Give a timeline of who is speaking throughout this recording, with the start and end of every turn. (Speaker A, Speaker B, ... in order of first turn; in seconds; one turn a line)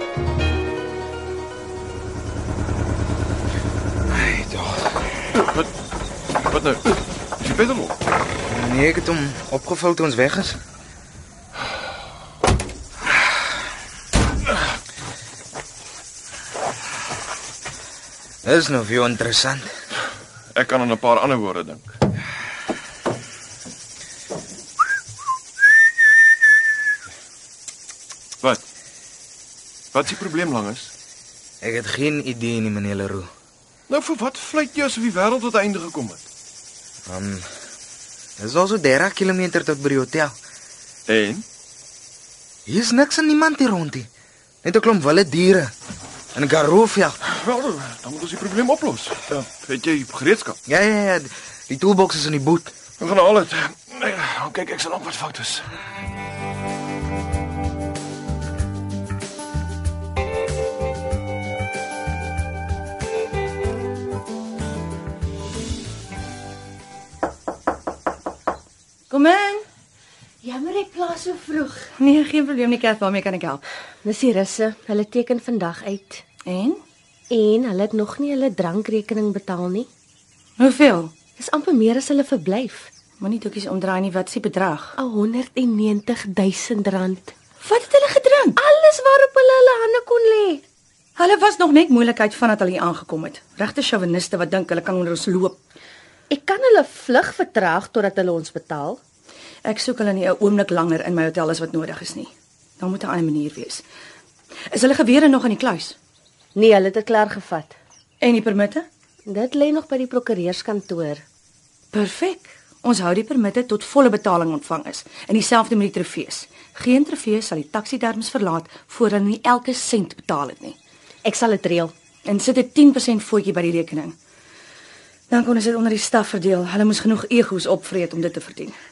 Speaker A: 4.1-5.0
Speaker B: 5.4-5.7
Speaker B: 6.4-8.0
Speaker A: 8.4-10.6
Speaker A: 18.4-19.7
Speaker B: 20.5-21.9
Speaker B: 29.9-30.9
Speaker A: 31.6-33.3
Speaker B: 33.9-36.2
Speaker A: 37.1-37.5
Speaker A: 38.4-40.3
Speaker B: 41.1-41.4
Speaker A: 42.6-44.1
Speaker A: 44.6-45.7
Speaker A: 46.3-47.2
Speaker B: 47.3-50.6
Speaker A: 50.6-52.7
Speaker B: 53.0-55.7
Speaker C: 69.1-69.6
Speaker D: 70.4-71.9
Speaker C: 72.0-73.6
Speaker D: 74.0-76.2
Speaker C: 76.4-76.8
Speaker D: 77.3-79.9
Speaker C: 80.6-81.1
Speaker D: 81.4-82.9
Speaker C: 83.2-84.9
Speaker D: 85.0-87.3
Speaker C: 87.6-88.6
Speaker D: 88.6-90.6
Speaker C: 91.2-95.6
Speaker D: 96.3-99.0
Speaker C: 99.6-103.8
Speaker C: 104.7-106.0
Speaker D: 106.5-107.7
Speaker C: 108.2-108.8
Speaker D: 109.3-111.2
Speaker C: 111.9-120.8
Speaker D: 121.2-121.9
Speaker C: 122.2-124.1
Speaker C: 125.3-128.8